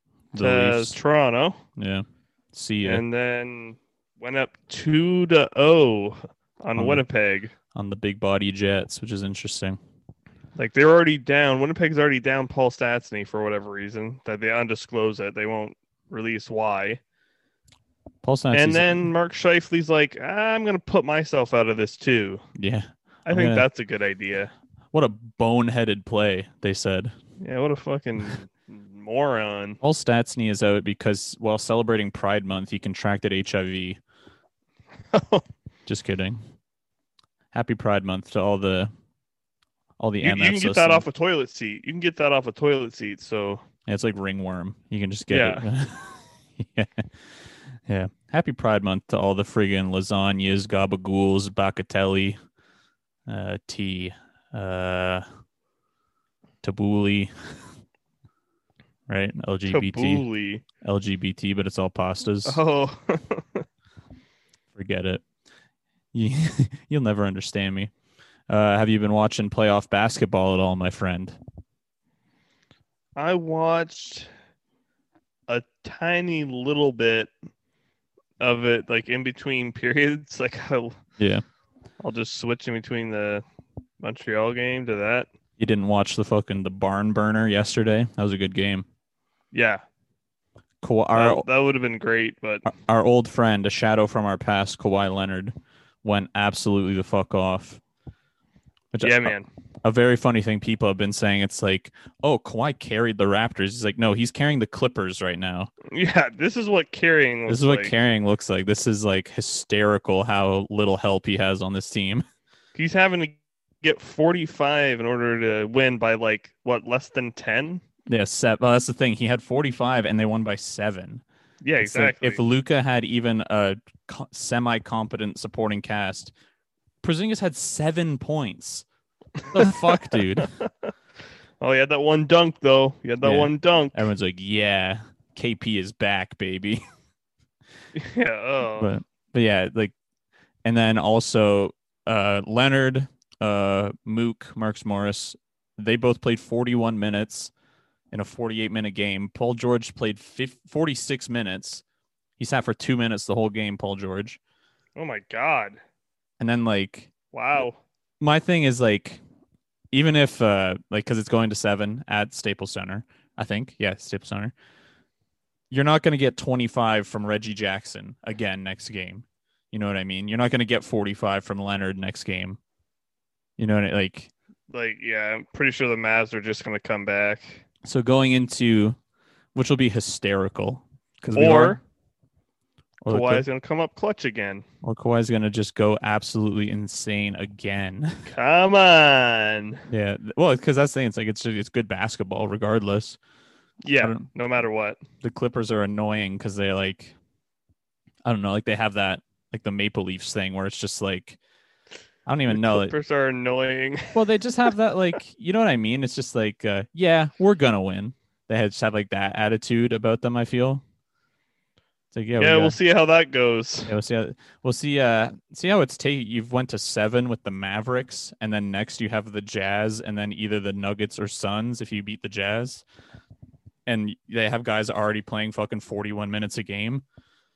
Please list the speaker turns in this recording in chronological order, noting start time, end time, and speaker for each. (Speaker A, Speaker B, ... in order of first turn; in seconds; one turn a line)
Speaker A: 0.3-1.0
Speaker B: 0.4-1.6
Speaker A: 1.8-3.0
Speaker B: 2.8-7.5
Speaker A: 6.8-7.0
Speaker A: 7.7-9.8
Speaker B: 10.6-17.0
Speaker A: 18.2-19.1
Speaker B: 18.5-22.4
Speaker A: 22.6-23.6
Speaker B: 23.3-24.5
Speaker A: 24.9-27.1
Speaker B: 27.4-29.8
Speaker A: 29.8-34.0
Speaker B: 35.1-35.5
Speaker A: 35.9-36.4
Speaker A: 37.5-38.9
Speaker A: 40.0-41.0
Speaker B: 40.2-43.6
Speaker A: 43.9-47.1
Speaker B: 45.3-45.6
Speaker A: 47.9-52.4
Speaker A: 53.3-55.2
Speaker A: 56.6-57.3
Speaker A: 59.1-60.2
Speaker B: 59.7-60.6
Speaker A: 60.8-62.6
Speaker B: 62.4-63.6
Speaker A: 64.7-65.2
Speaker A: 66.1-67.9
Speaker A: 68.5-71.4
Speaker B: 73.2-74.3
Speaker B: 75.5-77.3
Speaker B: 78.4-81.0
Speaker A: 81.2-81.4
Speaker B: 82.0-83.4
Speaker B: 84.0-85.3
Speaker A: 85.6-88.9
Speaker B: 89.5-89.8
Speaker A: 90.8-91.4
Speaker B: 91.1-92.7
Speaker A: 92.6-97.8
Speaker A: 98.9-105.7
Speaker B: 99.0-99.5
Speaker B: 105.9-107.9
Speaker A: 107.5-112.2
Speaker B: 112.8-117.8
Speaker A: 118.1-121.2
Speaker B: 121.6-122.4
Speaker A: 121.8-126.3
Speaker A: 127.0-128.8
Speaker B: 129.4-130.9
Speaker A: 129.5-130.5
Speaker B: 131.6-134.0
Speaker A: 133.2-136.8
Speaker B: 137.9-138.9
Speaker A: 138.8-139.9
Speaker A: 140.6-147.5
Speaker A: 148.1-151.8
Speaker A: 152.4-154.4
Speaker B: 154.9-155.8
Speaker A: 156.4-157.1
Speaker B: 157.3-157.8
Speaker A: 158.2-159.2
Speaker A: 159.9-164.5
Speaker A: 165.7-172.6
Speaker A: 173.6-174.3
Speaker B: 174.7-177.6
Speaker A: 177.8-179.0
Speaker A: 179.5-181.8
Speaker B: 181.3-181.8
Speaker A: 183.0-183.4
Speaker B: 183.1-184.6
Speaker A: 184.8-188.3
Speaker B: 188.2-189.8
Speaker A: 189.9-193.2
Speaker B: 193.8-195.0
Speaker A: 194.0-194.3
Speaker A: 195.2-197.2
Speaker A: 198.2-201.4
Speaker A: 202.2-202.9
Speaker B: 202.5-204.2
Speaker A: 204.1-210.8
Speaker A: 212.1-212.8
Speaker B: 212.4-213.9
Speaker A: 213.8-222.8
Speaker A: 223.8-227.0